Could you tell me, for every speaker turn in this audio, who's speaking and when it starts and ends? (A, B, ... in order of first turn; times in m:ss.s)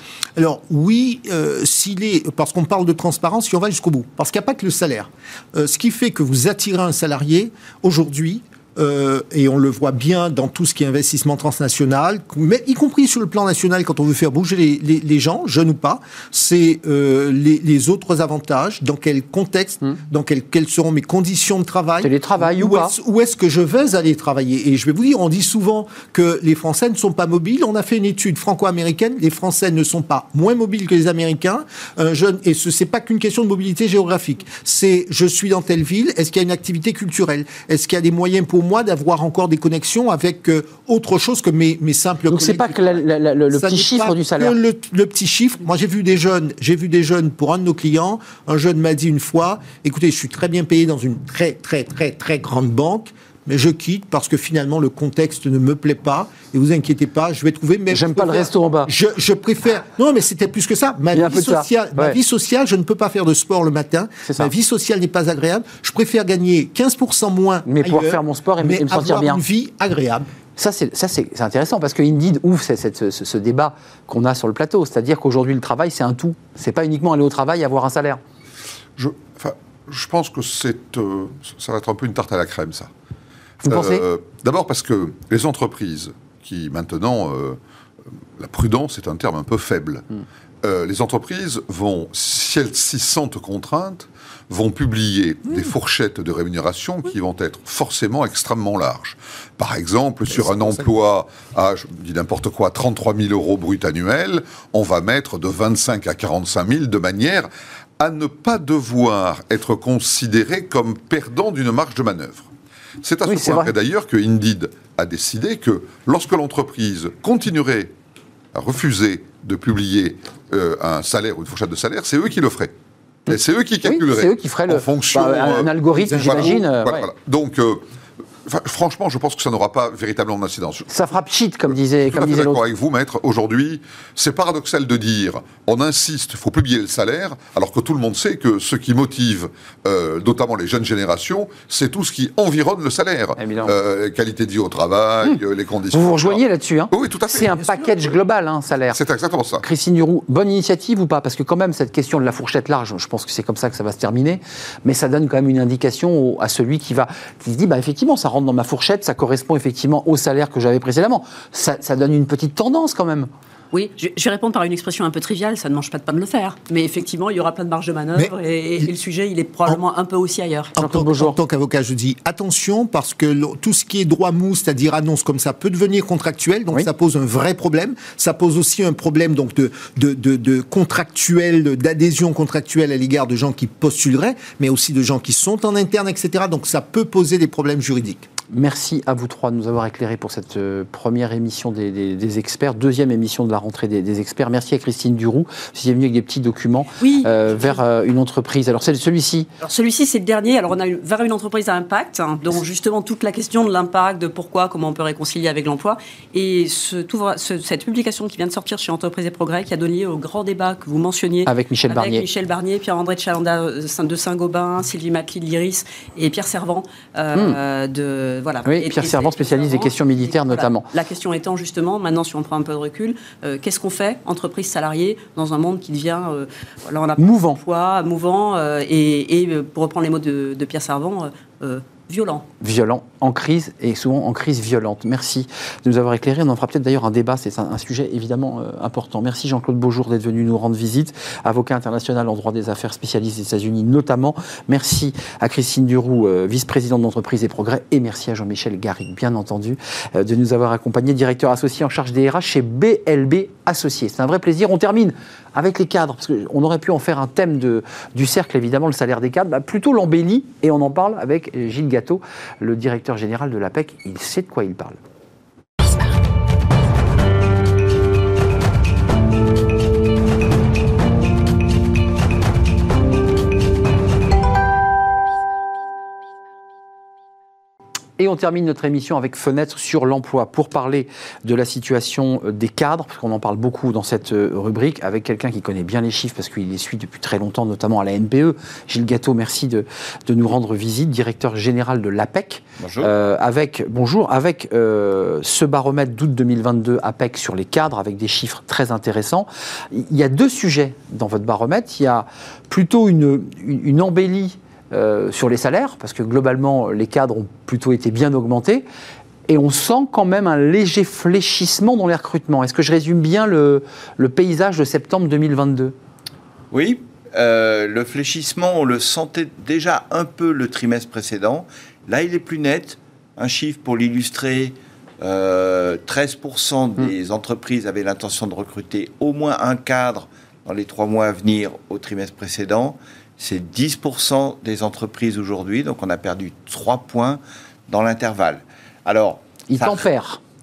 0:00.4-0:43.0 A
0:22.0-0:22.9 B
0:42.3-0:44.6 B
0:43.5-1:10.3 A
0:57.9-0:58.9 B
1:01.1-1:02.2 B
1:04.2-1:04.5 B
1:07.6-1:09.4 B
1:10.6-1:18.2 B
1:19.0-1:22.9 C
1:23.6-1:24.0 B
1:23.7-1:27.6 C
1:28.4-1:30.1 C
1:30.6-1:52.5 C
1:53.0-1:57.9 C
1:53.3-1:53.7 B
1:58.5-2:02.7 C
2:03.3-2:07.8 C
2:03.8-2:07.1 B
2:08.5-2:10.9 C
2:10.9-2:12.6 B
2:12.1-2:28.2 C
2:23.4-2:23.7 B
2:25.9-2:29.0 B
2:28.9-2:29.6 C
2:29.6-2:43.3 B
2:43.7-2:50.8 D
2:48.2-2:48.9 A
2:50.8-3:08.3 A
2:50.8-2:51.4 B
3:08.5-3:19.5 B
3:17.0-3:17.8 D
3:19.6-3:52.5 D
3:31.5-3:32.2 B
3:38.6-3:40.9 B
3:47.2-3:47.6 B
3:52.6-4:25.0 B
4:38.2-5:08.9 B
4:52.8-4:53.1 E
5:09.5-5:16.0 B
5:16.7-5:40.1 E
5:39.7-5:40.4 B